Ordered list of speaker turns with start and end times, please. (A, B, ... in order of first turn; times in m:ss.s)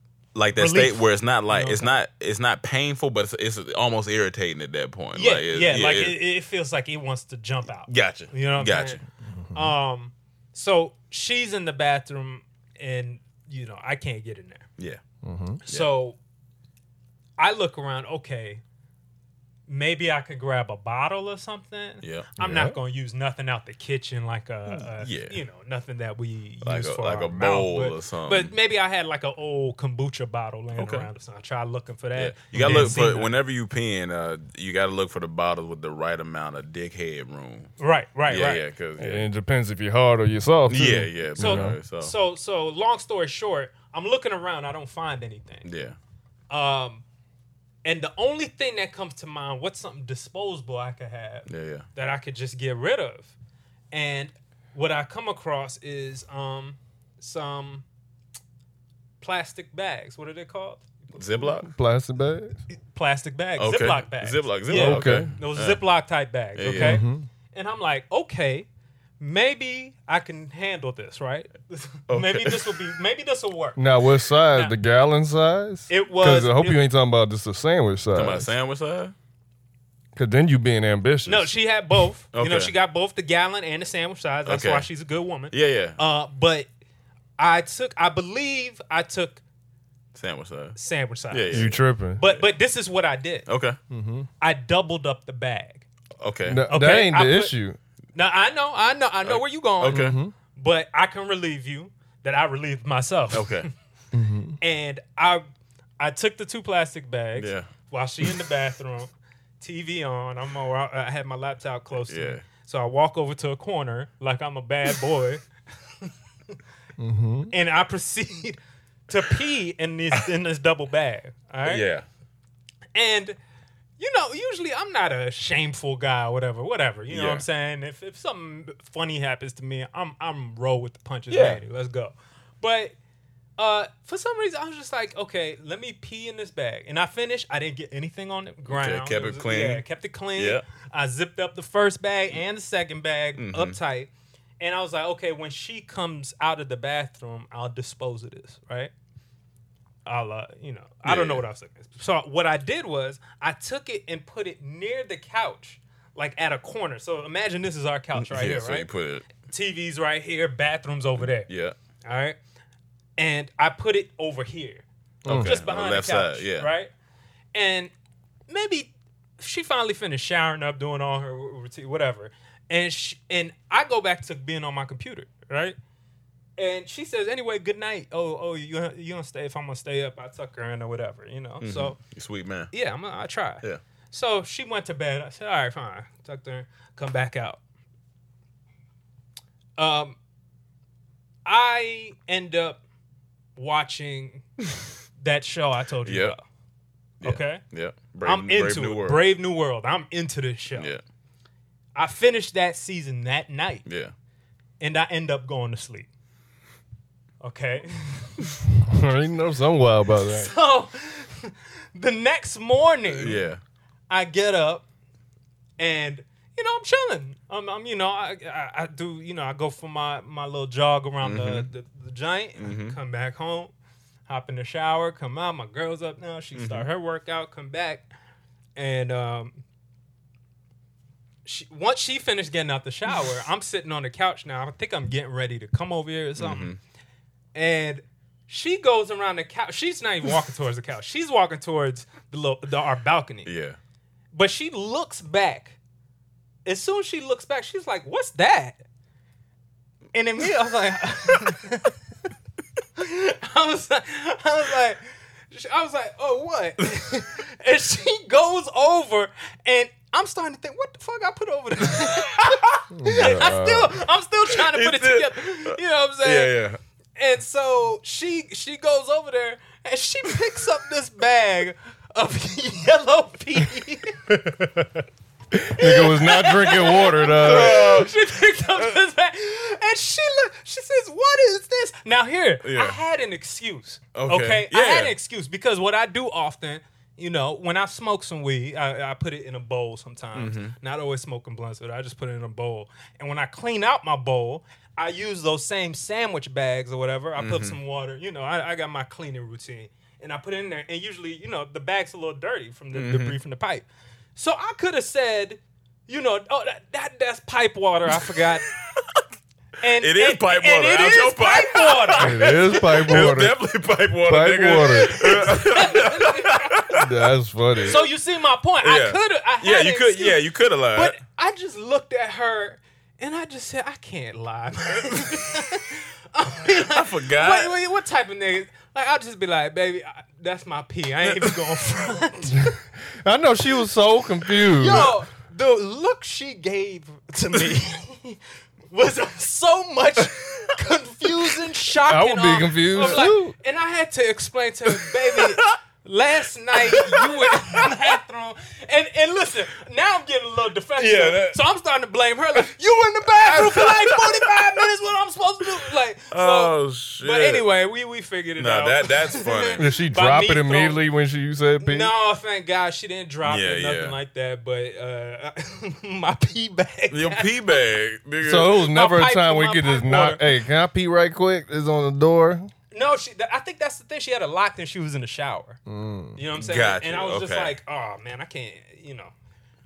0:00.4-0:06.2 A
0:00.6-0:02.0 B
0:05.2-0:09.0 B
0:07.9-0:09.0 A
0:09.3-0:09.7 C
0:09.5-0:14.7 B
0:15.2-0:15.6 C
0:15.7-0:16.2 B
0:17.4-0:18.6 B
0:19.7-0:33.3 B
0:22.0-0:22.3 A
0:22.4-0:22.8 C
0:24.7-0:25.4 A
0:26.6-0:28.5 A
0:30.8-0:31.1 A
0:32.2-0:37.7 A
0:37.8-0:38.6 B
0:38.3-0:39.3 A
0:39.0-0:41.8 C
0:40.7-0:42.1 A
0:41.4-0:45.7 B
0:45.6-0:46.0 A
0:46.5-0:47.0 B
0:47.8-0:53.3 B
0:51.5-0:51.9 A
0:53.9-0:57.8 B
0:59.2-1:00.9 B
1:01.2-1:01.7 A
1:01.6-1:02.6 C
1:02.9-1:08.7 B
1:03.6-1:05.8 A
1:04.7-1:05.3 C
1:06.6-1:07.0 A
1:06.7-1:07.3 C
1:09.2-1:13.8 B
1:12.1-1:12.8 A
1:13.8-1:18.5 C
1:15.9-1:16.8 B
1:18.1-1:19.1 A
1:20.2-1:21.5 C
1:21.3-1:26.7 B
1:22.3-1:22.7 A
1:24.5-1:24.9 A
1:25.5-1:26.0 A
1:27.4-1:29.4 B
1:30.2-1:30.8 A
1:30.8-1:33.5 B
1:31.3-1:31.8 A
1:31.5-1:32.2 C
1:33.5-1:33.8 A
1:33.9-1:34.3 C
1:34.4-1:35.9 B
1:36.2-1:36.6 A
1:36.4-1:37.8 C
1:36.7-1:37.6 B
1:38.2-1:43.7 B
1:39.2-1:40.2 A
1:39.9-1:40.3 C
1:43.3-1:43.7 A
1:44.1-1:44.6 C
1:44.6-1:45.4 B
1:46.0-1:55.4 B
1:47.4-1:47.7 A
1:52.0-1:52.4 A
1:57.0-1:57.5 C
1:57.5-1:58.6 B
1:59.1-2:01.8 B
2:01.6-2:02.0 A
2:03.0-2:03.4 B
2:04.0-2:12.9 B
2:07.1-2:07.4 A
2:11.3-2:11.6 A
2:13.6-2:28.9 B
2:18.7-2:19.8 A
2:20.4-2:20.6 A
2:23.4-2:23.8 A
2:30.1-2:38.9 B
2:31.0-2:31.4 A
2:38.2-2:39.3 A
2:39.4-2:41.5 B
2:41.2-2:41.8 A
2:42.0-2:42.4 B
2:43.2-2:44.9 B
2:45.2-2:45.6 C
2:45.3-2:46.7 A
2:45.4-2:46.9 B
2:47.5-2:47.9 B
2:48.5-2:55.8 B
2:56.6-3:02.0 B
3:01.6-3:02.7 A
3:02.7-3:07.6 B
3:09.8-3:10.2 B
3:11.5-3:12.8 B
3:13.6-3:14.5 B
3:15.2-3:16.4 B
3:16.0-3:16.4 A
3:17.2-3:19.2 A
3:17.2-3:17.6 B
3:18.2-3:20.9 B
3:20.8-3:21.0 A
3:22.0-3:23.8 B
3:23.9-3:24.1 A
3:24.8-3:26.1 B
3:27.4-3:28.4 B
3:28.8-3:30.5 C
3:30.2-3:33.4 B
3:33.1-3:33.6 A
3:34.1-3:34.9 B
3:35.8-3:43.7 B
3:41.2-3:41.7 A
3:42.6-3:43.0 A
3:44.3-3:48.1 B
3:46.6-3:46.9 A
3:48.8-3:49.6 B
3:51.4-3:56.7 B
3:56.4-3:56.8 A
3:57.6-4:03.5 B
4:03.4-4:03.8 A
4:04.3-4:05.8 B
4:06.6-4:08.8 B
4:10.1-4:12.0 B
4:13.0-4:26.5 B
4:22.0-4:22.7 A
4:22.9-4:24.0 C
4:24.6-4:26.8 A
4:27.2-4:34.2 B
4:34.3-4:38.1 C
4:35.8-5:03.8 B
4:37.4-4:38.1 A
4:42.6-4:43.0 A
4:44.1-4:45.1 A
4:50.4-4:50.8 A
4:57.4-4:57.8 A
5:02.9-5:03.4 A
5:04.4-5:08.7 B
5:08.7-5:09.2 A
5:09.8-5:13.0 B
5:10.0-5:17.0 A
5:12.2-5:13.6 C
5:14.2-5:15.4 C
5:14.8-5:17.0 B
5:17.0-5:18.0 C
5:17.8-5:20.4 B
5:18.8-5:21.2 A
5:20.9-5:32.8 B
5:26.6-5:27.7 A
5:31.2-5:31.6 A
5:33.2-5:35.2 C
5:34.7-5:38.4 B
5:38.9-6:01.0 B
5:42.0-5:43.6 C
5:45.2-5:45.8 A
5:46.8-5:48.1 A
5:51.0-5:51.6 A
5:53.4-5:54.5 A
5:56.3-5:57.7 A
5:58.6-5:59.8 A
5:59.8-6:02.1 C
6:01.8-6:07.8 B
6:03.4-6:04.2 A
6:07.1-6:08.8 A
6:08.4-6:12.7 C
6:08.8-6:10.4 B
6:12.9-6:15.8 B
6:15.9-6:16.4 C
6:16.4-6:19.3 B
6:16.6-6:17.8 A